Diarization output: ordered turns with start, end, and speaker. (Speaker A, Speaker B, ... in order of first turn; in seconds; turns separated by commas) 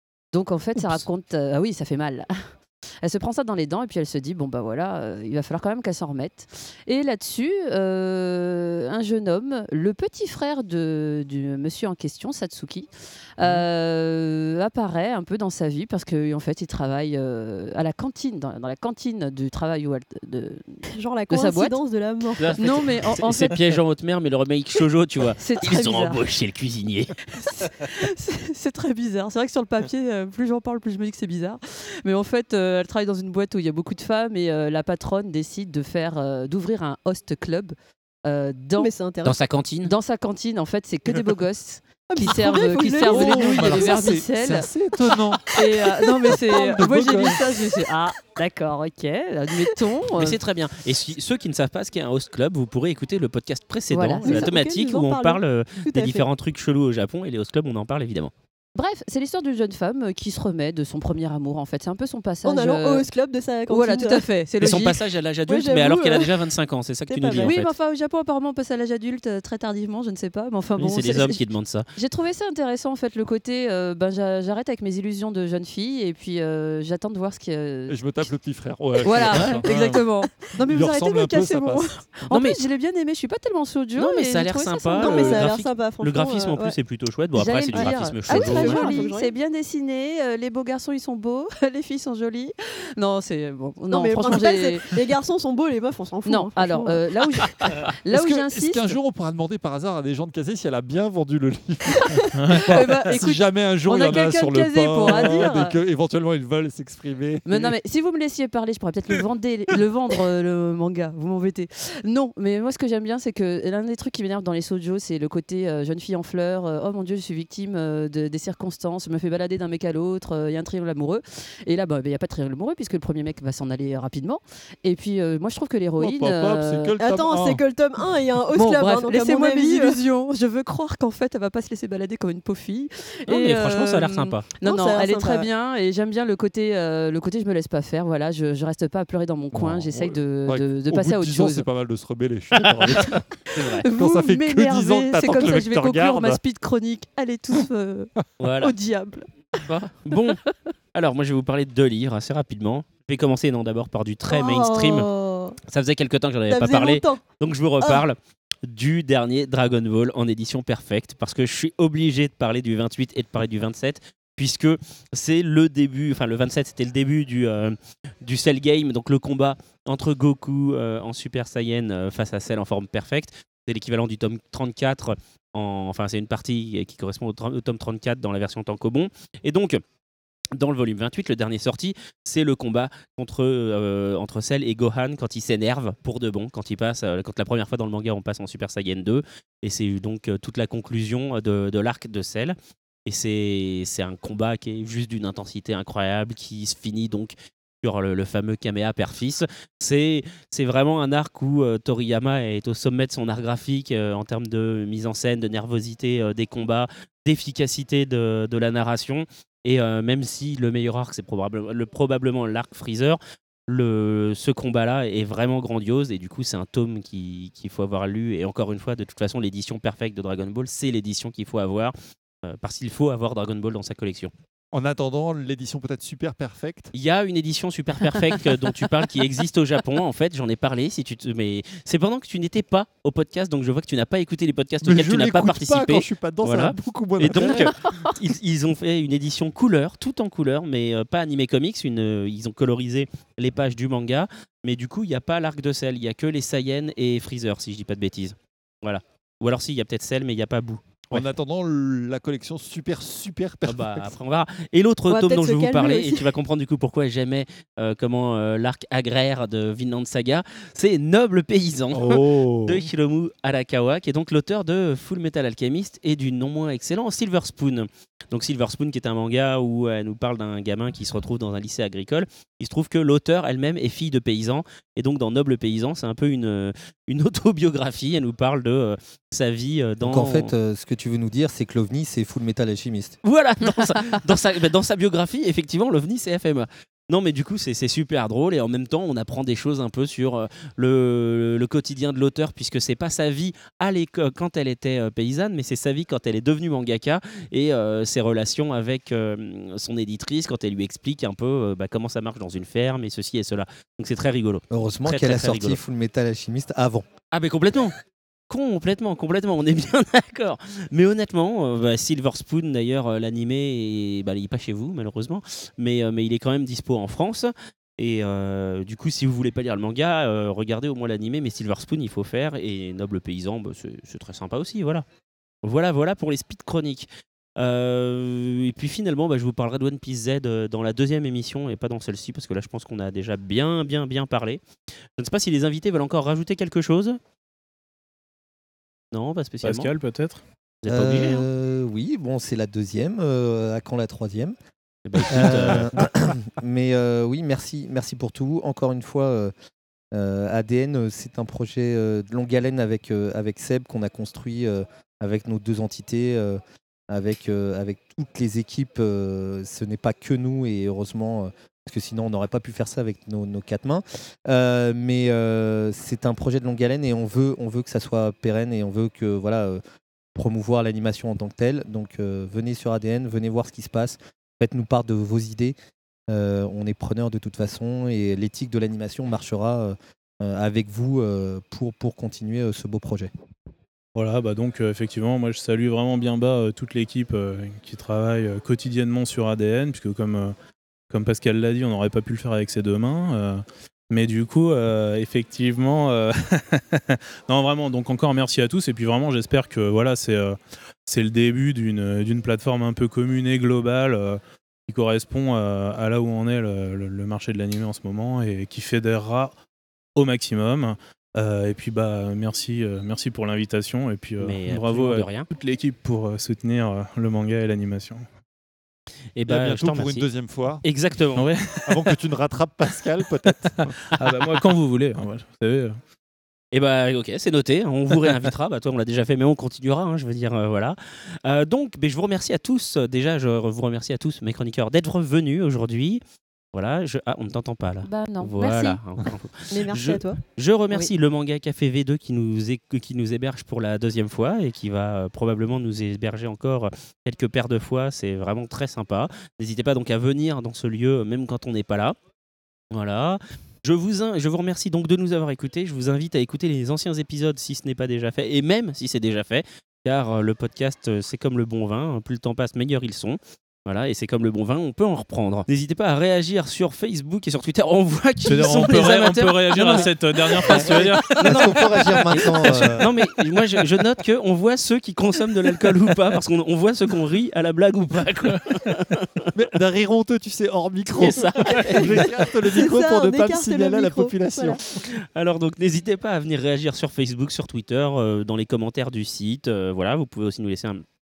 Speaker A: 0.3-21.8, Speaker B: 0.7-1.0, Speaker C: 20.9-22.7, Speaker B: 22.4-27.1, Speaker A: 22.5-23.6, Speaker A: 25.4-26.2, Speaker A: 27.3-38.9, Speaker C: 38.8-39.4, Speaker B: 39.2-39.9, Speaker A: 39.8-50.4, Speaker C: 42.1-44.2, Speaker D: 43.1-47.6, Speaker B: 50.1-58.3, Speaker A: 53.9-54.5, Speaker C: 54.2-56.2, Speaker A: 58.7-63.1, Speaker C: 62.4-64.2, Speaker A: 63.7-65.0, Speaker B: 64.6-67.7, Speaker C: 65.6-66.3, Speaker C: 67.1-67.6, Speaker A: 67.3-78.3, Speaker B: 70.8-71.9, Speaker D: 77.9-80.0, Speaker A: 79.0-85.6, Speaker C: 79.6-80.5, Speaker D: 80.7-81.9, Speaker B: 82.3-82.6, Speaker B: 84.0-88.9, Speaker C: 85.0-86.8, Speaker A: 87.3-95.0, Speaker C: 87.7-89.4, Speaker C: 93.9-97.4, Speaker A: 96.2-99.0, Speaker D: 98.1-107.7, Speaker A: 102.0-105.8, Speaker E: 102.3-103.1, Speaker A: 107.5-127.0, Speaker D: 126.0-127.6, Speaker C: 127.0-130.0, Speaker A: 128.5-141.7, Speaker B: 133.3-134.5, Speaker C: 134.6-135.5, Speaker D: 139.5-143.3, Speaker B: 142.6-143.8, Speaker A: 142.9-150.7, Speaker D: 143.9-146.4, Speaker B: 148.4-148.8, Speaker B: 149.7-150.4, Speaker B: 150.9-155.1, Speaker C: 154.3-155.6, Speaker B: 155.6-179.8, Speaker C: 156.5-157.2, Speaker B: 180.5-224.3, Speaker D: 224.7-226.9, Speaker B: 226.9-251.3, Speaker D: 234.8-237.8, Speaker A: 237.3-238.1, Speaker D: 251.1-254.1, Speaker B: 253.6-280.5, Speaker C: 255.1-256.3, Speaker D: 261.9-262.9, Speaker F: 280.0-283.2, Speaker B: 283.2-305.8, Speaker A: 283.8-284.1, Speaker F: 304.7-307.1, Speaker B: 307.3-307.9, Speaker B: 308.5-325.0, Speaker B: 325.6-334.6, Speaker B: 335.2-337.2, Speaker B: 339.1-339.9, Speaker E: 339.6-340.4, Speaker B: 340.8-341.4, Speaker F: 340.9-344.5, Speaker B: 345.1-345.9, Speaker F: 345.3-349.5, Speaker F: 350.1-369.8, Speaker F: 370.3-375.8, Speaker F: 376.3-383.3, Speaker E: 384.1-390.5, Speaker E: 391.1-409.6, Speaker E: 410.1-418.2, Speaker B: 414.4-415.5, Speaker B: 419.4-420.3, Speaker D: 419.4-420.8, Speaker B: 420.8-421.5, Speaker E: 421.4-422.2, Speaker D: 421.9-424.1, Speaker E: 424.1-426.0, Speaker B: 426.7-436.2, Speaker B: 436.7-452.1, Speaker A: 438.0-439.0, Speaker C: 439.7-440.4, Speaker B: 452.9-479.2, Speaker E: 468.4-471.8, Speaker F: 471.2-473.1, Speaker D: 479.5-484.8, Speaker B: 481.1-482.3, Speaker C: 481.9-484.8, Speaker B: 484.9-491.0